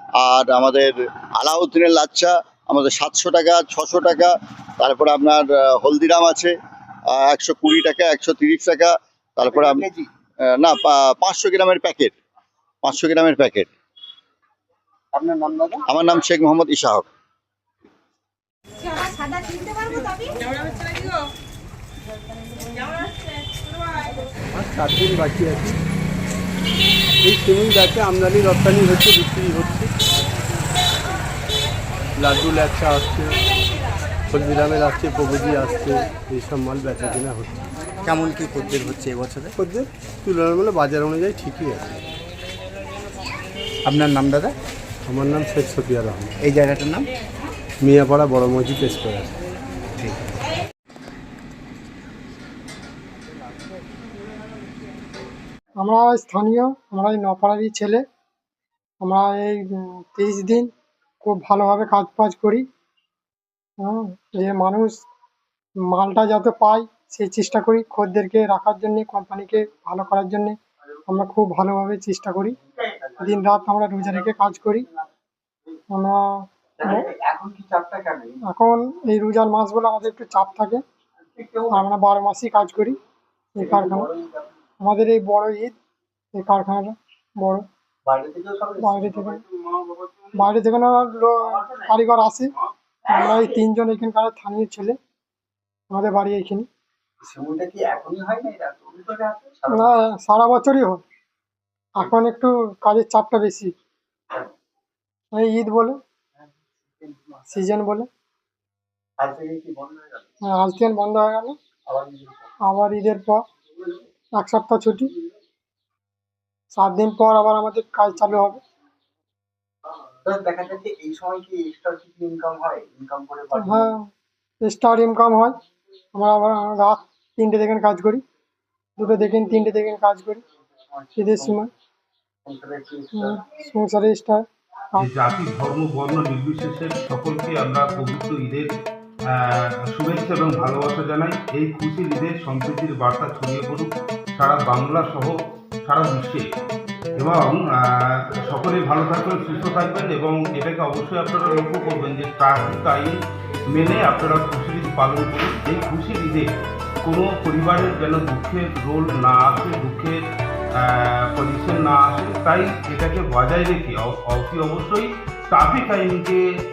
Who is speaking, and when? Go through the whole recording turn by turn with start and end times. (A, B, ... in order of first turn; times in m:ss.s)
0:00.2-0:06.5 A
0:07.1-0:09.9 A
0:09.4-0:10.1 B
0:10.6-0:12.1 A
0:12.8-0:13.7 A
0:15.1-0:15.8 B
0:15.9-0:17.1 A
0:24.5-0:25.8 C
0:27.2-0:29.9 C
0:32.2-0:33.4 C
0:34.3-0:37.7 C
0:38.0-0:39.6 D
0:39.6-0:42.0 C
0:43.8-0:44.6 D
0:45.1-0:46.3 C
0:46.4-0:47.1 D
0:47.8-0:49.3 C
0:55.8-0:58.0 E
0:59.0-1:00.7 E
1:01.2-1:02.6 E
1:03.8-1:05.0 E
1:05.9-1:10.6 E
1:11.1-1:12.6 E
1:12.7-1:13.5 B
1:13.2-1:14.9 E
1:15.9-1:16.3 E
1:16.8-1:18.4 B
1:16.8-1:17.1 E
1:18.4-1:20.8 E
1:21.3-1:21.8 B
1:21.7-1:23.0 E
1:23.6-1:24.1 E
1:23.6-1:24.6 B
1:24.8-1:25.7 E
1:26.3-1:27.6 E
1:28.0-1:30.3 B
1:28.8-1:29.4 E
1:30.3-1:32.5 E
1:31.6-1:31.8 B
1:33.1-1:35.0 E
1:35.9-1:36.7 E
1:37.2-1:39.9 B
1:39.7-1:41.0 E
1:42.0-1:43.7 E
1:45.3-1:46.0 E
1:46.4-1:47.5 B
1:47.5-1:48.1 E
1:49.2-1:50.3 B
1:50.4-1:51.6 E
1:51.9-1:52.5 B
1:52.6-1:53.4 E
1:54.3-1:55.1 E
1:56.7-1:58.6 E
2:00.2-2:03.9 B
2:03.5-2:04.1 E
2:04.6-2:05.6 E
2:06.1-2:08.2 E
2:09.0-2:10.4 E
2:10.9-2:11.6 B
2:11.2-2:11.7 E
2:12.4-2:13.4 B
2:13.1-2:14.4 E
2:15.0-2:18.7 F
2:19.3-2:26.4 F
2:27.2-2:33.2 F
2:33.7-2:36.5 F
2:37.0-2:40.2 F
2:40.8-2:46.4 F